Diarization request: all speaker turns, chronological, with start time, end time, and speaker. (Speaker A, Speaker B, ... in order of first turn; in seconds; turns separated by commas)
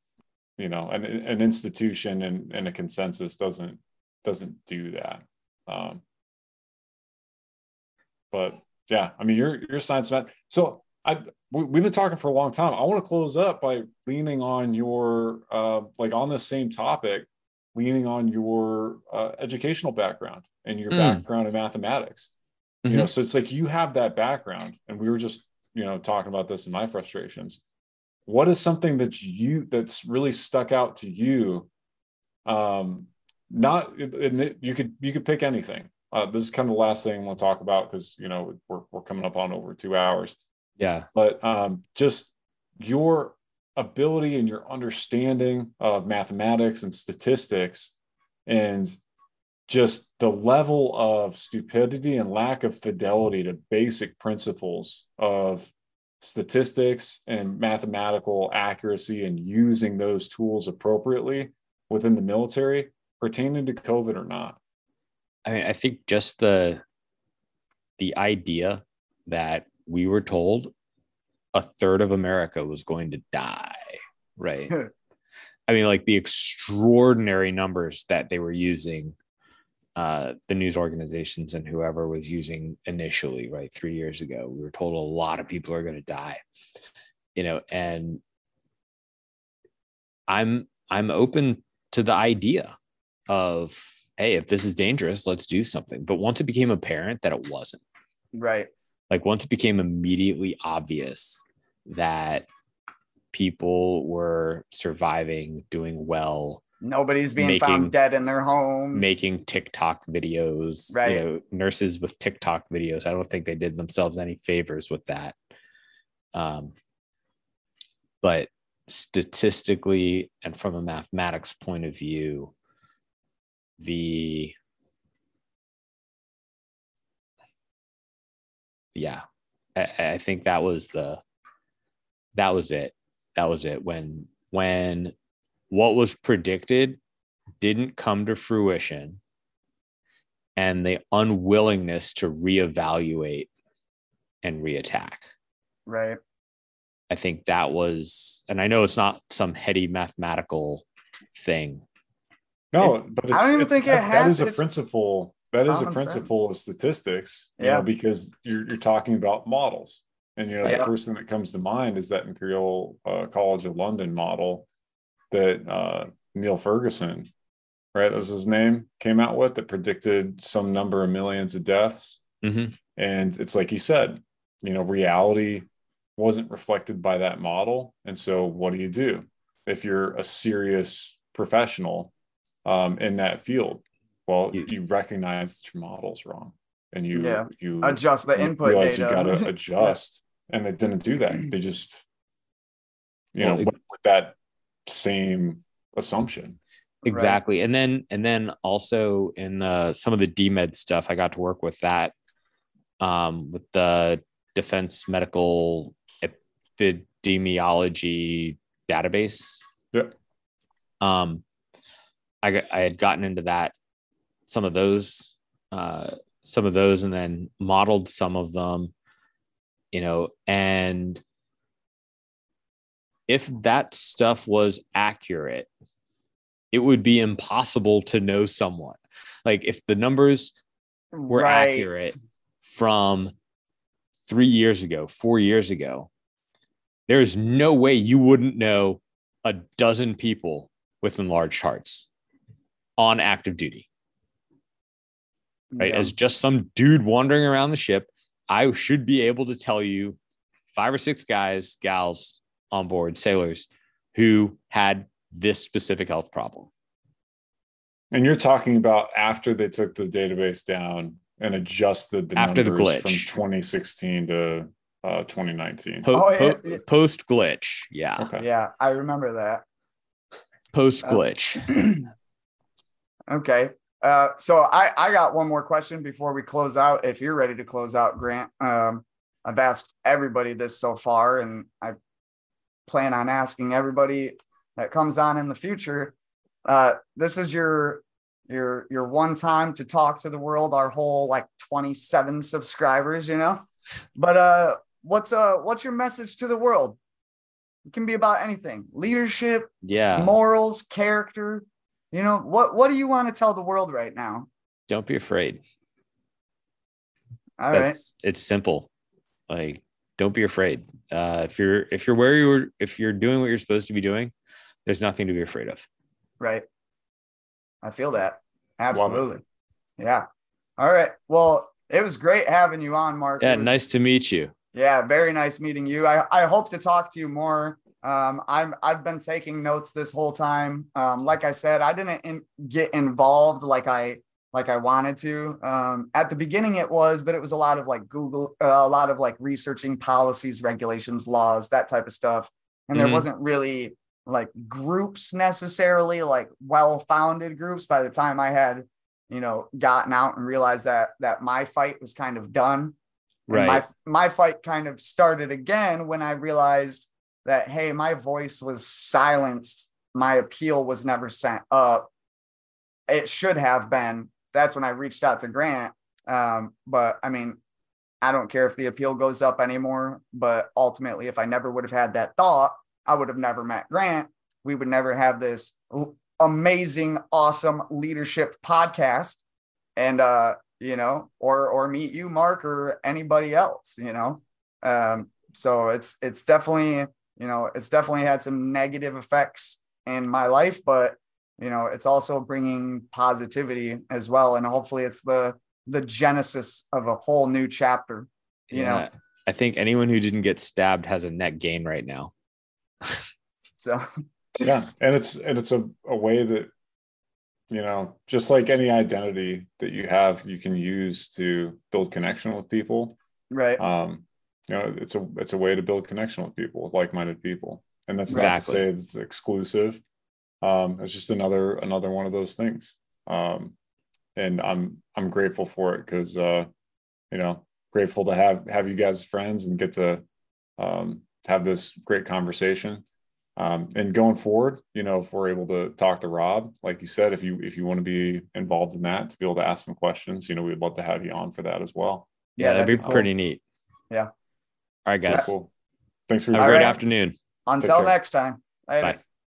Speaker A: 0.6-6.0, Speaker A: 8.3-22.3, Speaker B: 20.9-21.2, Speaker B: 22.9-23.1, Speaker A: 22.9-27.6, Speaker A: 28.3-31.7, Speaker A: 32.5-40.4, Speaker B: 40.8-41.1, Speaker A: 41.1-47.9, Speaker A: 48.5-49.0, Speaker A: 49.7-64.6, Speaker B: 65.5-66.8, Speaker B: 68.0-70.7, Speaker B: 71.5-74.7, Speaker B: 75.7-79.2, Speaker B: 80.0-86.4, Speaker B: 87.4-88.2, Speaker B: 90.3-92.7, Speaker B: 93.3-97.8, Speaker C: 98.3-98.7, Speaker B: 99.1-102.5, Speaker B: 103.3-106.6, Speaker C: 106.8-109.1, Speaker B: 107.4-108.0, Speaker B: 108.9-115.3, Speaker C: 110.9-111.2, Speaker B: 116.3-116.7, Speaker B: 118.2-122.5, Speaker B: 123.8-124.5, Speaker B: 128.9-129.2, Speaker B: 129.8-131.2, Speaker B: 132.3-135.1, Speaker B: 135.7-137.0, Speaker B: 137.6-139.2, Speaker B: 140.6-143.5, Speaker B: 144.4-145.3, Speaker C: 145.9-146.2, Speaker B: 147.1-150.8, Speaker B: 151.4-151.8, Speaker A: 152.7-164.7, Speaker C: 153.3-154.6, Speaker C: 155.7-156.3, Speaker C: 157.6-157.9, Speaker C: 160.7-160.9, Speaker A: 165.3-167.3, Speaker A: 167.9-172.2, Speaker B: 172.4-172.8, Speaker A: 173.0-182.1, Speaker A: 182.7-192.0, Speaker C: 187.1-189.9, Speaker A: 193.3-196.6, Speaker B: 193.4-193.7, Speaker C: 197.1-197.4, Speaker B: 197.1-202.1, Speaker B: 203.0-209.6, Speaker B: 211.0-211.4, Speaker B: 212.4-213.7, Speaker B: 214.5-218.9, Speaker B: 219.9-221.2, Speaker B: 223.3-225.7, Speaker B: 226.7-230.5, Speaker C: 231.1-232.1, Speaker B: 231.3-233.3, Speaker B: 234.3-236.1, Speaker B: 237.1-242.1, Speaker B: 243.0-243.9, Speaker C: 245.7-246.1, Speaker B: 245.8-250.2, Speaker B: 250.7-256.7, Speaker A: 258.1-266.1, Speaker B: 262.4-263.3, Speaker B: 266.1-268.3, Speaker C: 266.1-266.8, Speaker A: 268.2-268.4, Speaker C: 268.4-269.6, Speaker B: 270.7-271.8, Speaker C: 271.0-272.1, Speaker C: 273.3-282.0, Speaker C: 282.9-286.1, Speaker C: 286.7-297.0, Speaker C: 297.9-304.5, Speaker B: 299.8-300.4, Speaker B: 304.9-305.6, Speaker C: 307.6-308.0, Speaker B: 307.7-308.9, Speaker B: 309.5-314.3, Speaker B: 314.9-315.9, Speaker C: 316.4-316.6, Speaker C: 317.8-319.4, Speaker C: 320.0-320.2, Speaker C: 320.8-323.8, Speaker B: 323.4-324.5, Speaker C: 324.7-353.0, Speaker B: 342.9-343.3, Speaker B: 353.5-353.8, Speaker C: 353.5-362.1, Speaker C: 363.1-367.6, Speaker C: 368.2-379.4, Speaker C: 380.0-399.1, Speaker B: 398.7-402.3, Speaker C: 403.8-404.1, Speaker A: 404.6-406.7, Speaker A: 407.7-413.2, Speaker C: 413.5-413.8, Speaker A: 413.8-420.0, Speaker B: 418.3-418.8, Speaker A: 420.6-423.7, Speaker A: 424.4-426.7, Speaker A: 427.3-430.2, Speaker A: 430.8-433.0, Speaker A: 433.6-442.3, Speaker B: 442.6-443.6, Speaker C: 442.6-443.3, Speaker A: 443.0-443.3, Speaker B: 445.1-445.5, Speaker A: 445.3-445.7, Speaker A: 446.3-447.0, Speaker B: 446.5-447.4, Speaker C: 446.6-447.0, Speaker C: 447.7-449.2, Speaker A: 447.8-448.1